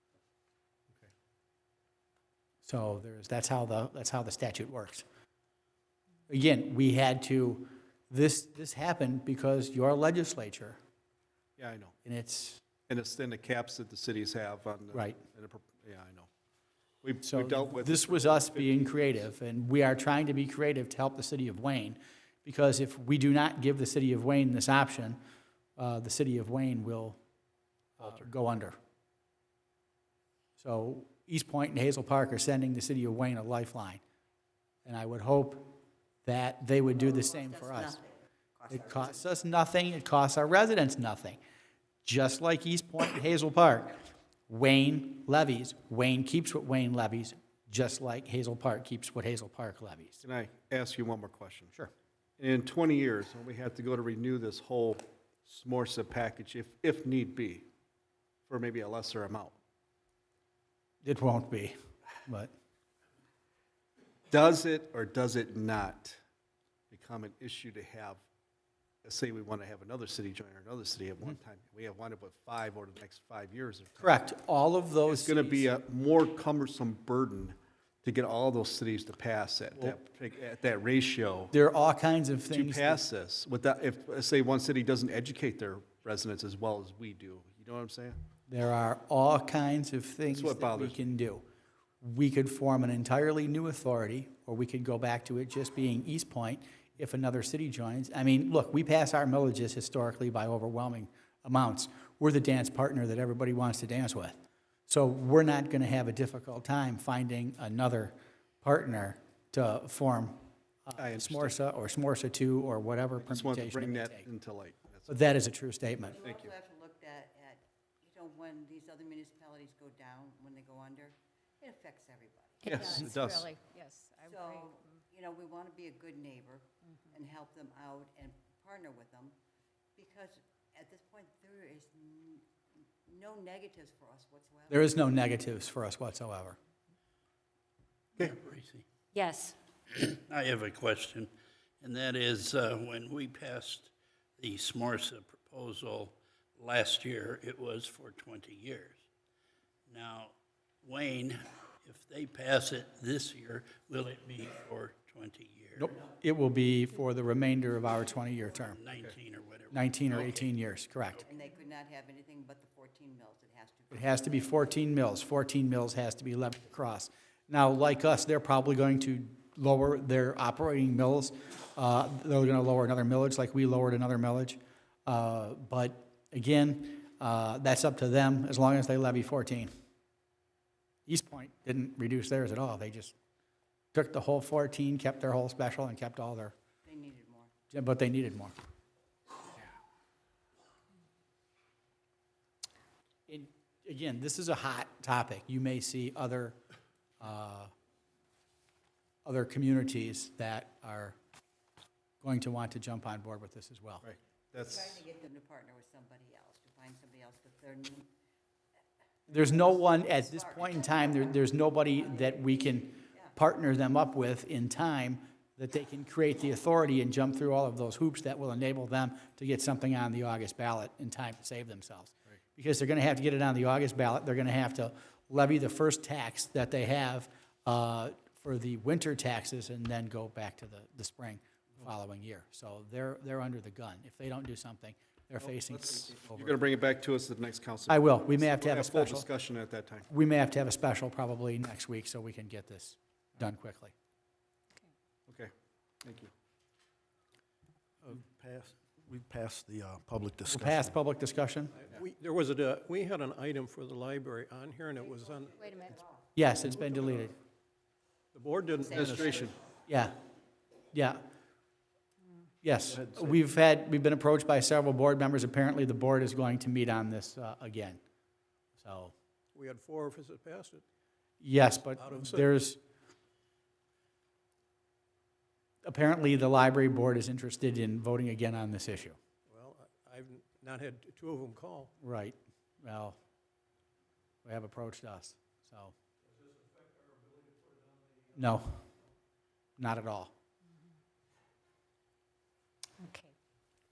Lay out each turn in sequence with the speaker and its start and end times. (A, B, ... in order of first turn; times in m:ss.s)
0:02.6-0:05.0 A
0:06.3-0:10.8 A
0:11.6-0:12.0 B
0:12.0-0:12.6 A
0:12.9-0:16.3 B
0:17.0-0:19.2 B
0:17.2-0:25.2 A
0:25.8-0:27.2 A
0:28.0-0:28.8 A
0:30.6-0:34.0 A
0:34.9-0:35.7 A
0:36.2-0:38.0 A
0:36.9-0:39.2 C
0:38.7-0:41.4 A
0:42.0-0:44.0 A
0:44.5-0:50.2 A
0:50.2-0:51.7 B
0:52.4-0:57.6 B
0:58.5-0:59.6 B
1:01.0-1:02.5 A
1:04.3-1:06.2 B
1:06.9-1:08.2 B
1:09.0-1:14.2 B
1:14.0-1:15.7 A
1:15.1-1:21.5 B
1:21.5-1:23.0 A
1:22.5-1:28.2 B
1:28.5-1:31.5 A
1:30.3-1:31.0 B
1:32.0-1:54.2 A
1:51.0-1:51.6 B
1:53.2-1:55.1 B
1:55.1-1:56.2 A
1:56.1-2:02.8 C
1:56.2-1:56.5 B
2:02.6-2:04.8 D
2:02.7-2:03.5 B
2:04.2-2:09.4 C
2:10.0-2:12.4 C
2:13.1-2:14.9 C
2:14.7-2:16.6 A
2:18.2-2:18.8 E
2:19.1-2:19.6 D
2:19.9-2:21.3 E
2:21.8-2:29.0 E
2:29.9-2:36.0 E
2:35.8-2:38.8 A
2:38.6-2:40.5 E
2:39.7-2:41.3 A
2:41.3-2:44.2 C
2:43.9-2:59.7 A
3:01.1-3:03.2 A
3:03.9-3:06.6 A
3:06.8-3:07.5 C
3:07.7-3:08.6 A
3:13.3-3:16.6 A
3:17.2-3:17.7 A
3:19.2-3:21.2 A
3:22.2-3:24.0 A
3:24.0-3:25.0 B
3:24.6-3:28.1 C
3:29.3-3:33.3 C
3:29.3-3:56.6 A
3:55.6-4:00.1 B
3:57.9-3:59.3 A
4:00.1-4:03.9 A
4:05.3-4:05.5 B
4:06.0-4:06.3 B
4:08.0-4:11.0 F
4:10.5-4:11.8 A
4:11.8-4:16.0 G
4:15.1-4:16.1 C
4:15.6-4:16.0 D
4:16.4-4:17.4 A
4:16.8-4:17.2 G
4:18.3-4:19.4 G
4:18.8-4:19.5 C
4:18.9-4:19.6 B
4:19.9-4:20.2 A
4:20.9-4:21.2 A
4:22.6-4:28.0 A
4:28.8-4:29.1 A
4:29.6-4:30.8 G
4:31.4-4:32.8 A
4:32.0-4:32.5 G
4:35.8-4:39.2 A
4:39.5-4:41.9 G
4:42.0-4:43.2 A
4:44.4-4:45.9 A
4:46.3-4:48.6 G
4:48.4-4:48.8 A
4:49.8-4:50.3 A
4:53.0-4:53.3 D